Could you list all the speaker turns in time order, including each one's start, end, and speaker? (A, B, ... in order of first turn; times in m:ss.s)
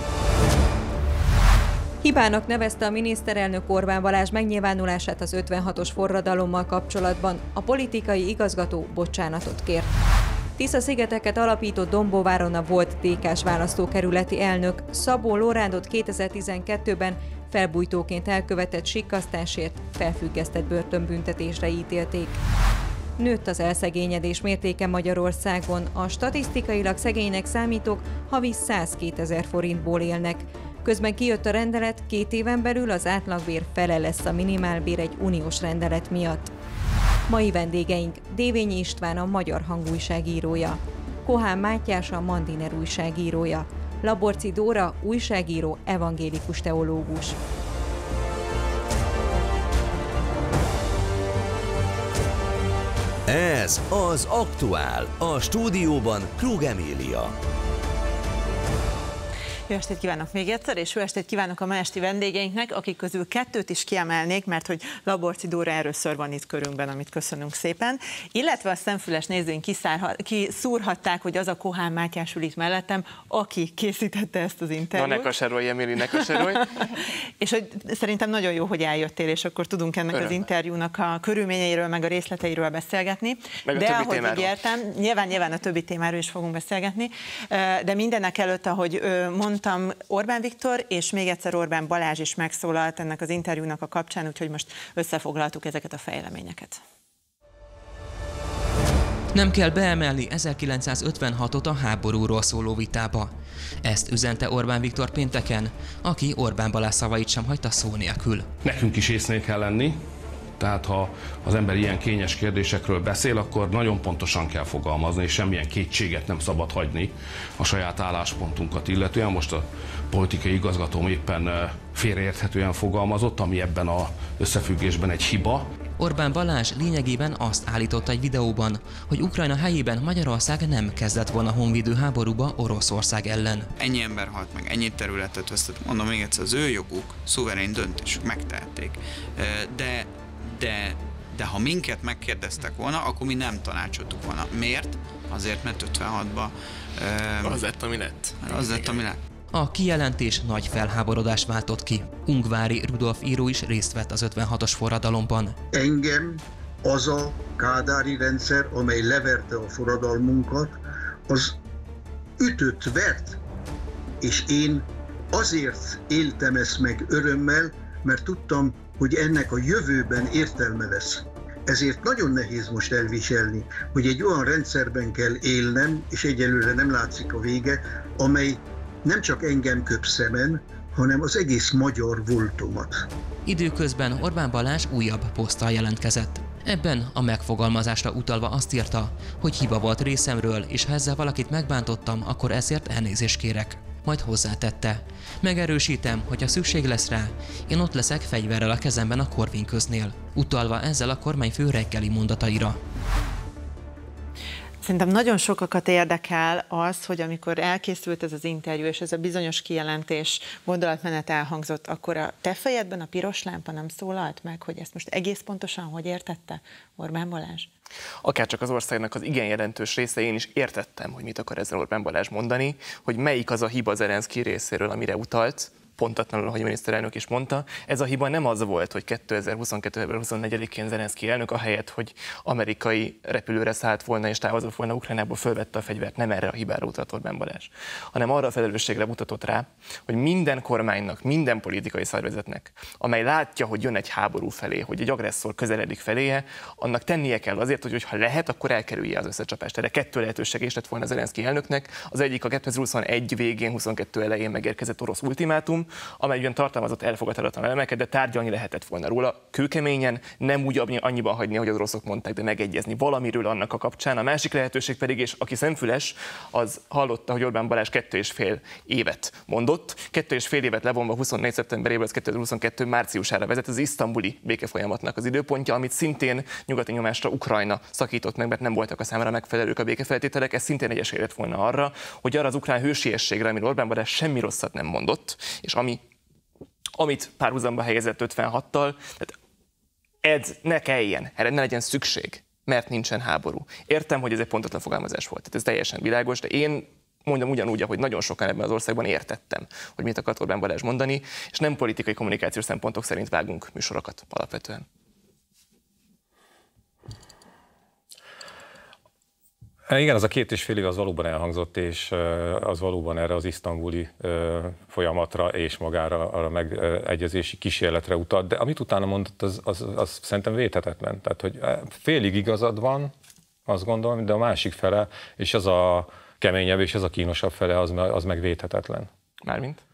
0:02.0-0:09.9 A
0:10.6-0:22.4 A
0:23.2-0:36.5 A
0:37.3-0:47.4 A
0:53.3-0:57.3 B
0:59.7-1:15.3 C
1:14.9-1:16.7 D
1:16.5-1:36.8 C
1:20.1-1:20.4 D
1:23.7-1:24.5 D
1:39.3-1:43.3 E
1:43.8-1:48.5 E
1:48.6-1:50.0 F
1:50.6-2:05.6 F
2:06.0-2:13.7 E
2:13.8-2:27.6 G
2:27.4-2:29.0 D
2:28.4-2:29.2 G
2:29.5-2:35.6 E
2:35.7-2:40.8 H
2:41.3-2:41.6 H
2:42.4-2:43.4 H
2:44.2-3:03.0 H
3:03.5-3:22.8 E
3:24.8-3:37.7 C
3:38.2-4:46.0 D
4:47.0-4:49.4 D
4:50.2-5:04.9 D
5:09.9-5:23.1 I
5:23.7-5:29.1 I
5:29.4-5:29.8 D